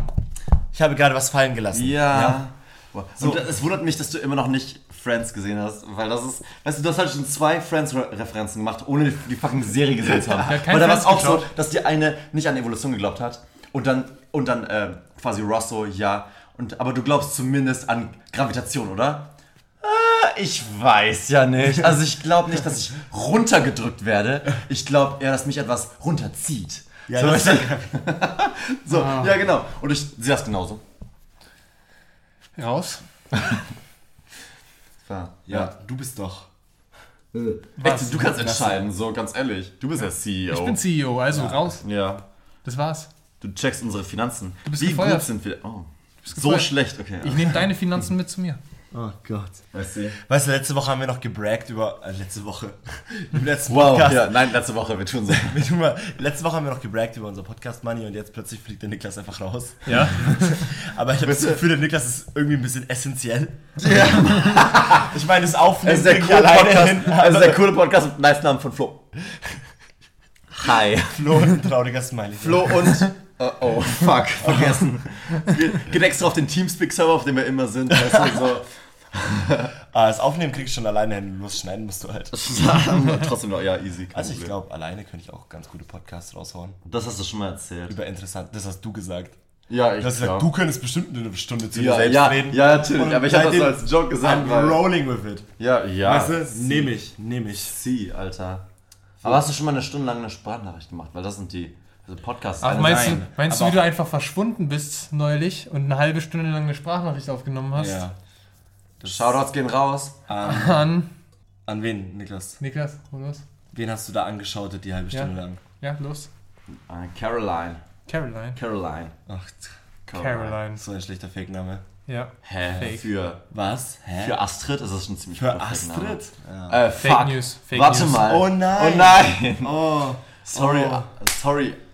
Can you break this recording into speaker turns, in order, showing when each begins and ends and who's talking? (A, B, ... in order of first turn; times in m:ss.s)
0:00.7-0:02.4 A
0:01.7-0:30.8 B
0:03.2-0:03.4 A
0:10.4-0:11.5 C
0:27.1-0:28.0 A
0:28.9-0:29.4 C
0:32.6-0:33.0 C
0:33.3-0:33.6 B
0:35.0-0:35.7 B
0:35.5-0:36.5 A
0:37.3-0:40.8 B
0:37.8-0:38.3 C
0:38.1-0:38.8 A
0:40.5-0:41.8 C
0:41.3-0:41.6 A
0:41.8-0:42.2 B
0:42.6-0:43.1 C
0:43.4-0:47.7 B
0:44.6-0:45.3 C
0:46.2-0:48.6 C
0:48.9-0:54.5 A
0:49.7-0:50.2 B
0:53.7-0:55.6 B
0:55.4-1:07.6 A
0:59.9-1:00.7 C
1:01.2-1:01.6 B
1:03.8-1:05.1 B
1:05.8-1:09.3 B
1:10.5-1:11.3 B
1:11.0-1:13.0 A
1:12.4-1:19.7 B
1:18.0-1:18.4 A
1:19.9-1:22.4 A
1:22.3-1:24.5 B
1:24.1-1:26.8 A
1:26.8-1:27.9 B
1:27.9-1:29.4 A
1:29.7-1:30.5 B
1:30.0-1:35.5 A
1:31.7-1:34.8 B
1:35.6-1:37.0 B
1:36.0-1:37.7 A
1:37.5-1:38.6 B
1:39.2-1:43.2 B
1:42.6-1:48.0 C
1:42.7-1:43.8 A
1:47.7-1:48.2 A
1:49.0-1:49.3 A
1:49.0-1:50.2 B
1:50.3-1:50.9 A
1:50.4-1:51.1 C
1:51.7-1:52.6 A
1:52.6-1:53.4 C
1:53.7-1:55.6 A
1:55.1-1:56.3 C
1:56.7-1:57.8 B
1:58.1-1:58.6 C
1:58.5-1:59.1 B
1:59.3-1:59.7 A
2:00.1-2:00.6 B
2:00.1-2:00.8 C
2:00.7-2:01.8 A
2:02.1-2:03.1 C
2:02.4-2:03.4 B
2:03.5-2:04.4 A
2:04.2-2:06.2 B
2:05.4-2:06.8 A
2:06.7-2:11.8 B
2:07.0-2:08.3 C
2:08.1-2:11.1 A